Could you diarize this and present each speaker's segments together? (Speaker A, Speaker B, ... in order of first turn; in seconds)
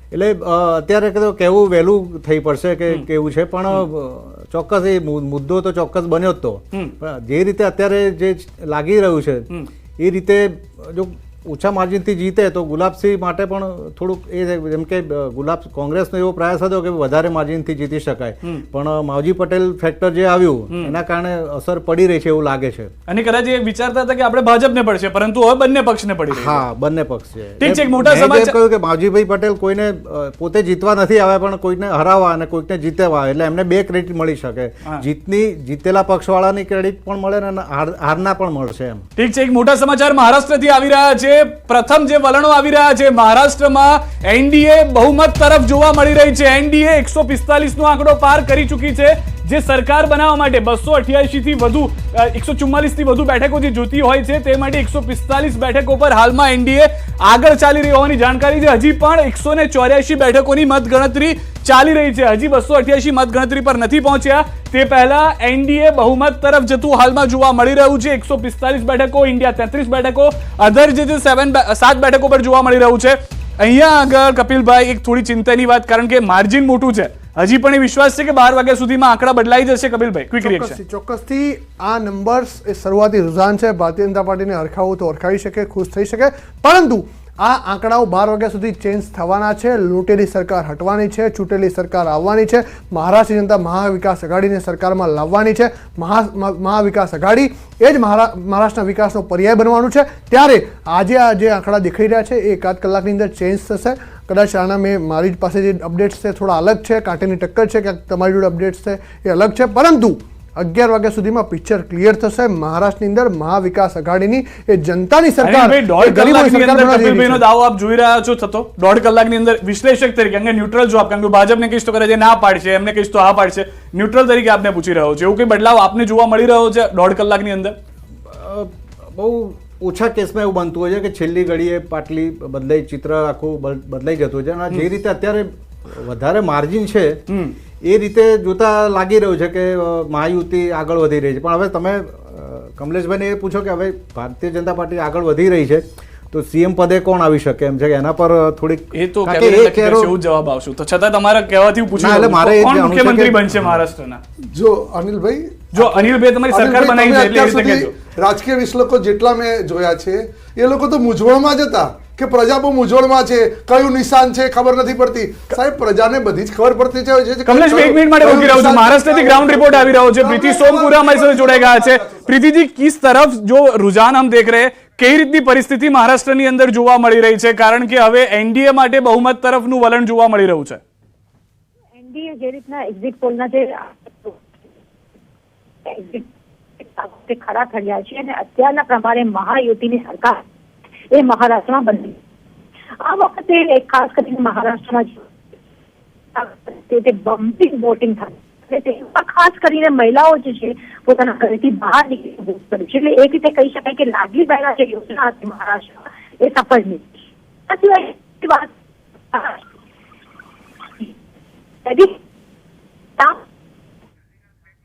Speaker A: 0.1-22.9, 26.3-39.0, 128.3-137.2, 137.8-150.2, 151.9-153.8
Speaker B: 20.7-20.9, 23.1-26.6, 27.6-28.6, 39.2-80.8, 115.4-127.8, 137.3-137.6, 148.9-154.2, 155.7-157.9, 167.5-180.8
Speaker C: 80.3-117.5
Speaker D: 154.5-172.3
Speaker E: 182.0-184.4, 185.8-186.3, 186.8-190.4, 191.1-192.2, 193.0-195.3, 196.3-207.2, 207.7-208.7, 209.3-209.6, 211.8-212.2